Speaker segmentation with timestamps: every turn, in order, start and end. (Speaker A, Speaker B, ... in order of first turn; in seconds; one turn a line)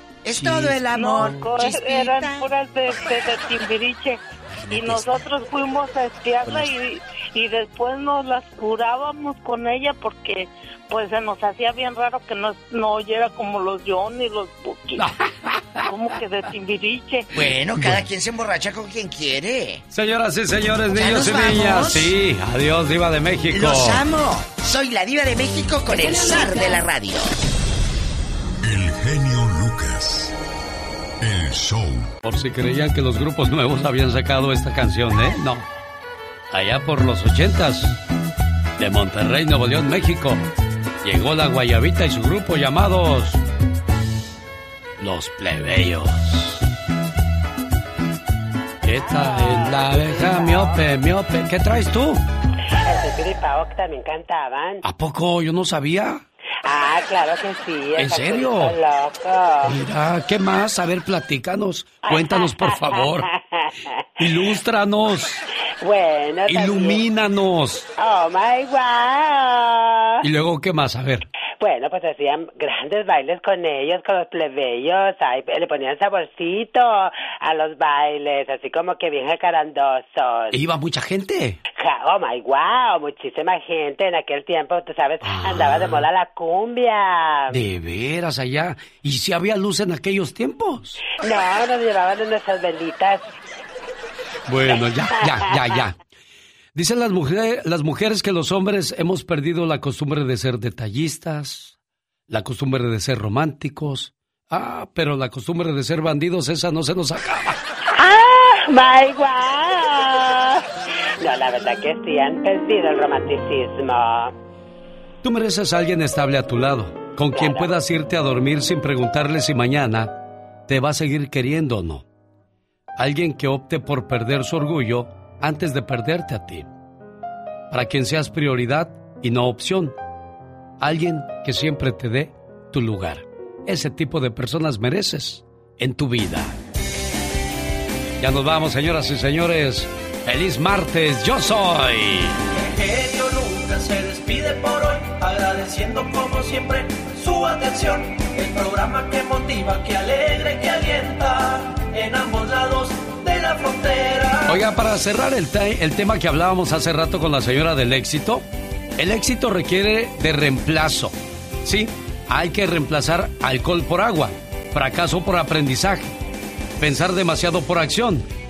Speaker A: 0.2-2.5
Speaker B: 0.4-1.4
Speaker C: 0.9-15.1
Speaker A: 4.5-5.2
Speaker B: 15.0-15.9
Speaker C: 15.8-17.4
Speaker A: 17.3-19.8
Speaker B: 19.9-24.0
Speaker A: 20.9-22.1
Speaker A: 23.5-27.3
Speaker C: 25.9-26.8
Speaker D: 28.6-30.3
Speaker D: 31.2-32.1
Speaker B: 32.2-35.6
Speaker B: 36.5-38.0
Speaker B: 38.8-40.4
Speaker B: 41.0-43.4
Speaker B: 45.0-46.6
Speaker B: 48.8-52.2
Speaker E: 49.0-50.9
Speaker E: 52.7-54.8
Speaker B: 54.8-56.2
Speaker E: 56.6-59.8
Speaker B: 58.0-58.7
Speaker B: 59.6-63.3
Speaker E: 62.0-63.9
Speaker B: 64.2-65.4
Speaker E: 65.8-67.0
Speaker B: 66.5-67.9
Speaker E: 68.0-70.2
Speaker B: 70.2-71.2
Speaker E: 71.6-80.6
Speaker B: 80.5-81.6
Speaker E: 81.8-87.6
Speaker B: 85.2-86.1
Speaker B: 87.5-91.0
Speaker E: 91.2-93.3
Speaker B: 94.5-95.9
Speaker E: 95.3-95.6
Speaker B: 96.7-101.7
Speaker B: 102.3-107.6
Speaker E: 108.0-110.6
Speaker E: 111.2-114.3
Speaker B: 115.2-122.0
Speaker E: 117.3-117.7
Speaker B: 123.0-126.7
Speaker B: 127.7-129.9
Speaker B: 130.8-136.6
Speaker B: 138.2-142.4
Speaker F: 142.7-154.6
Speaker B: 154.4-158.4
Speaker B: 159.0-166.1
Speaker B: 166.8-168.3